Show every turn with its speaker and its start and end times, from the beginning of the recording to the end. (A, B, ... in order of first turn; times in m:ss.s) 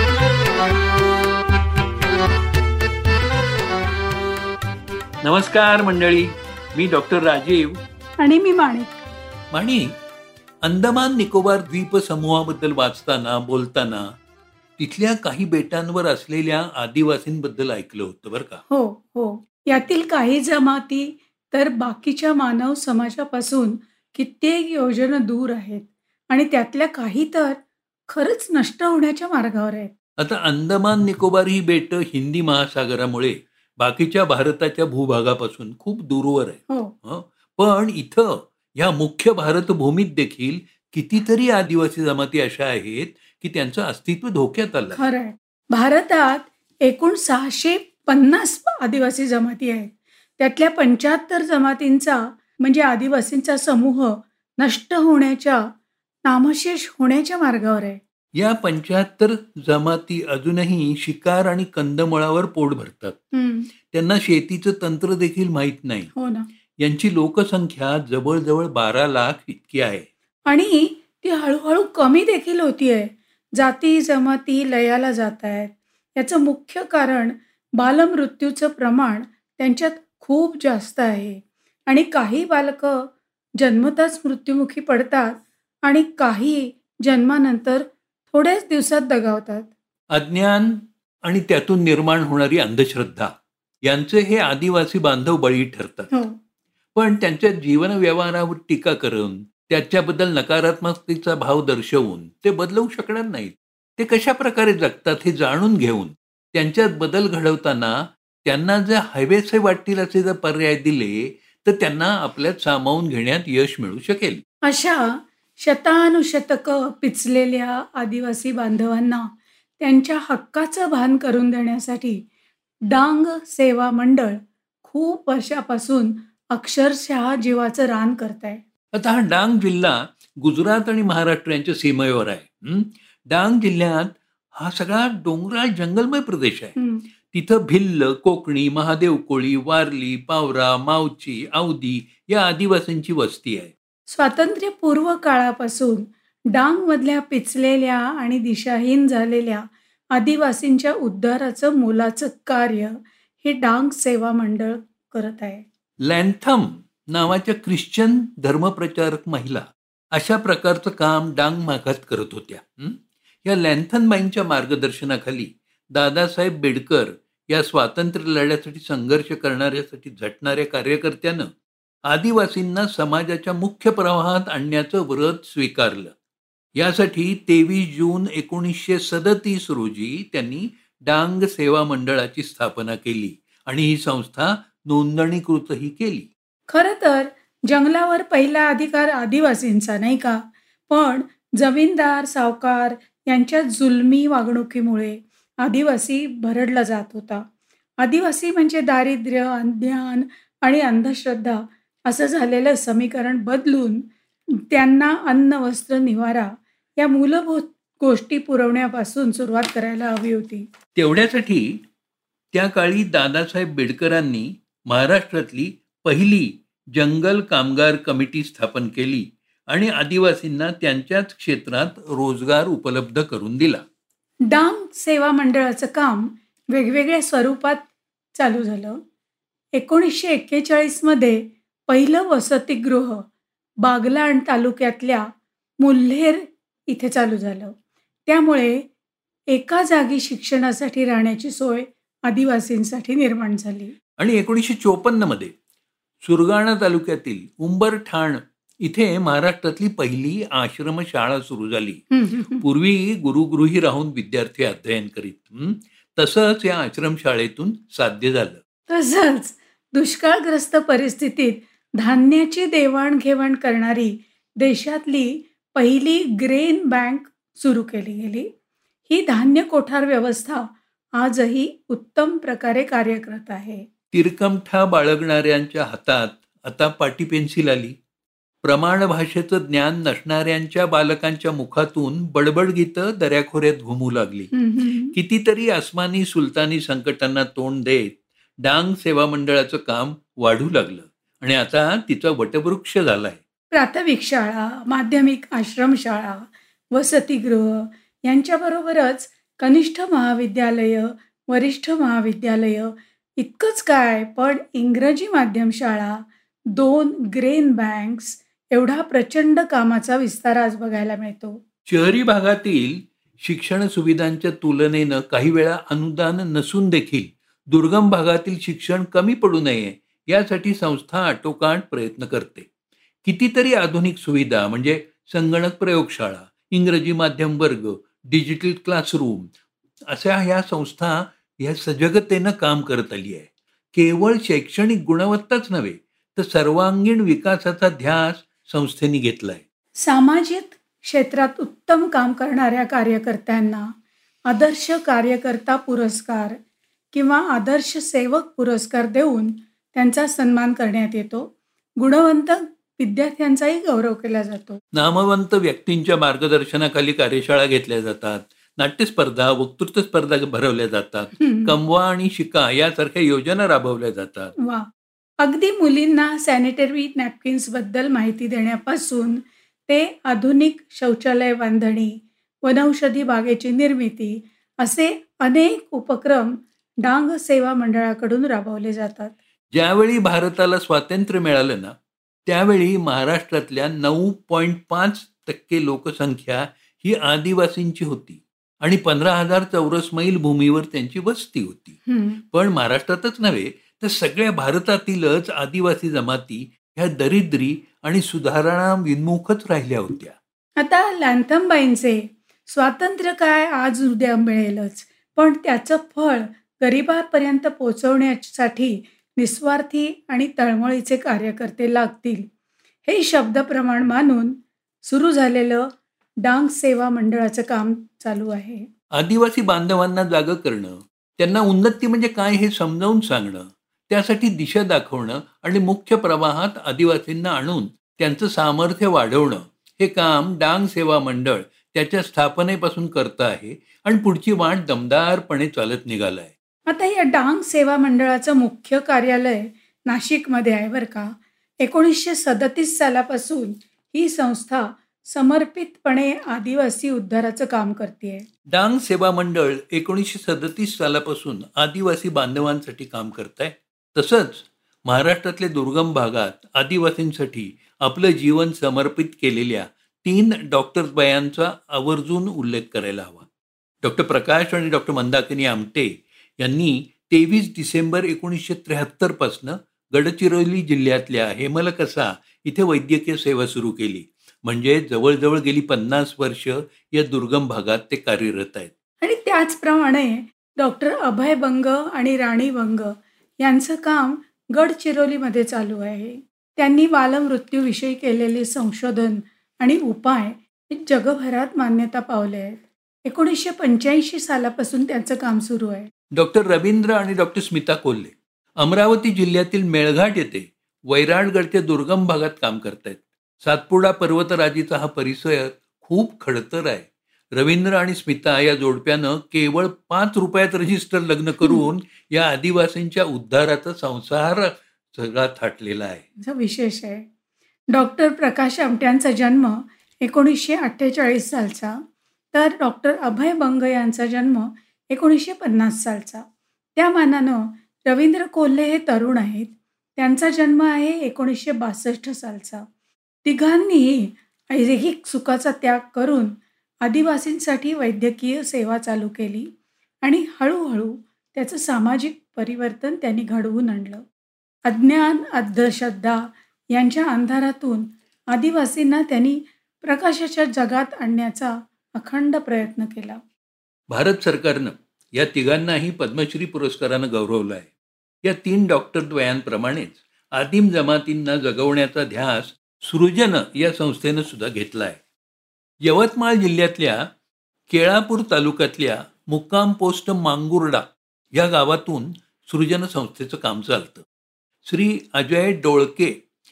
0:05.2-0:07.8 A
0:08.2-0:09.0 B
0:09.5-0:09.9 A
0:10.6-0:14.1 A
0:14.8-0:18.6 A
0:18.7-0:29.9 B
0:30.2-0:45.0 A
0:36.7-0:36.9 B
0:44.9-0:55.6 B
0:56.2-0:58.0 B
0:58.4-1:03.2 A
1:03.3-1:03.7 B
1:03.9-1:06.1 A
1:06.1-1:06.4 B
1:06.8-1:10.0 A
1:10.4-1:29.7 B
1:30.1-1:33.3 A
1:33.8-1:36.1 A
1:36.1-1:36.3 B
1:36.9-1:54.4 A
1:54.6-2:02.2 B
2:02.9-2:08.6 B
2:08.9-2:16.7 A
2:16.8-2:17.0 B
2:17.3-2:23.7 A
2:24.1-2:35.6 B
2:36.0-2:51.5 A
2:52.1-2:56.1 A
2:56.8-3:06.3 A
3:06.7-3:17.4 B
3:18.0-3:24.1 B
3:24.7-3:30.6 B
3:30.9-3:31.7 A
3:32.5-3:43.8 A
3:44.5-3:49.0 B
3:49.8-3:53.2 B
3:53.8-3:55.3 B
3:55.8-3:57.7 B
3:58.2-3:58.9 B
3:59.5-4:04.0 B
4:04.2-4:05.5 A
4:06.2-4:18.6 A
4:12.1-4:12.6 B
4:18.9-4:28.5 B
4:29.1-4:33.8 B
4:34.1-4:37.9 A
4:38.6-4:44.5 A
4:44.5-4:45.1 B
4:45.1-4:53.4 A
4:53.7-5:11.6 B
5:11.9-5:22.7 A
5:23.2-5:29.5 A
5:30.1-5:39.6 A
5:40.0-5:43.9 B
5:44.5-5:46.6 B
5:47.1-5:54.8 B
5:54.9-6:04.5 A
6:01.4-6:01.8 B
6:04.6-6:04.9 B
6:05.4-6:19.3 B
6:19.7-6:21.9 A
6:22.4-6:32.0 A
6:32.0-6:32.4 B
6:32.5-6:40.3 A
6:40.8-6:52.5 B
6:53.0-6:55.9 B
6:56.4-6:58.9 B
6:59.2-7:16.5 A
7:16.9-7:28.5 B
7:28.7-7:43.4 A
7:44.0-7:58.9 A
7:59.2-8:16.1 B
8:16.3-8:36.2 A
8:36.4-8:37.2 B
8:37.9-8:42.0 B
8:42.5-8:52.8 B
8:53.4-8:59.7 B
9:00.2-9:04.2 B
9:04.8-9:13.4 B
9:14.1-9:17.9 A
9:18.4-9:25.2 A
9:26.0-9:27.2 A
9:27.9-9:34.2 A
9:34.8-9:36.3 A